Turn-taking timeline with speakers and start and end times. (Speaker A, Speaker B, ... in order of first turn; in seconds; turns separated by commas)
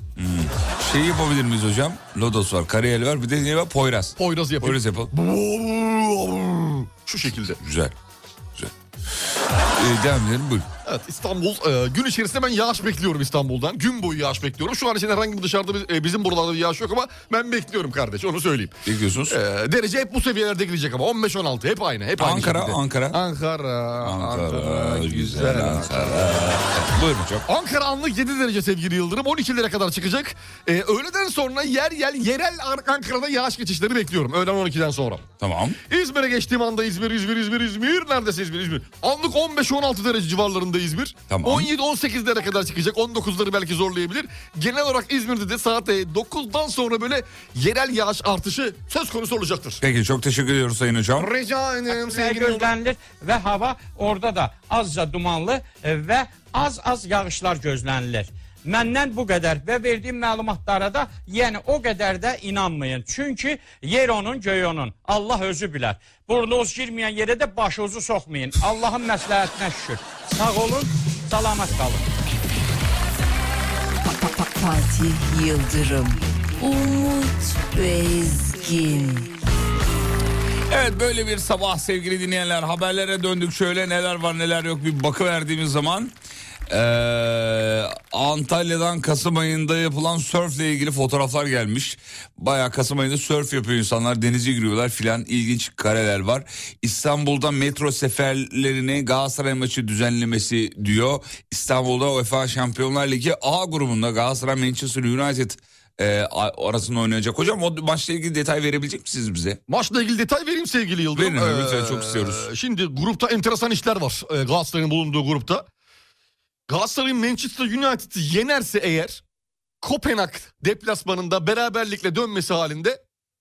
Speaker A: 0.2-5.1, Speaker B: 4.2-7.6, Speaker A: 7.6-7.9, Speaker A: 9.7-10.7, Speaker B: 10.8-26.6, Speaker A: 18.8-19.4, Speaker A: 22.2-23.2, Speaker A: 24.0-27.4, Speaker B: 27.5-35.2, Speaker A: 35.4-35.8, Speaker B: 35.9-49.8, Speaker A: 41.3-41.7, Speaker A: 49.8-51.3, Speaker B: 51.2-52.7, Speaker C: 51.9-72.0, Speaker D: 74.0-79.3, Speaker A: 80.7-86.1, Speaker A: 86.7-109.6, Speaker B: 109.7-115.7, Speaker A: 111.1-112.5, Speaker B: 116.7-119.2, Speaker B: 119.8-123.0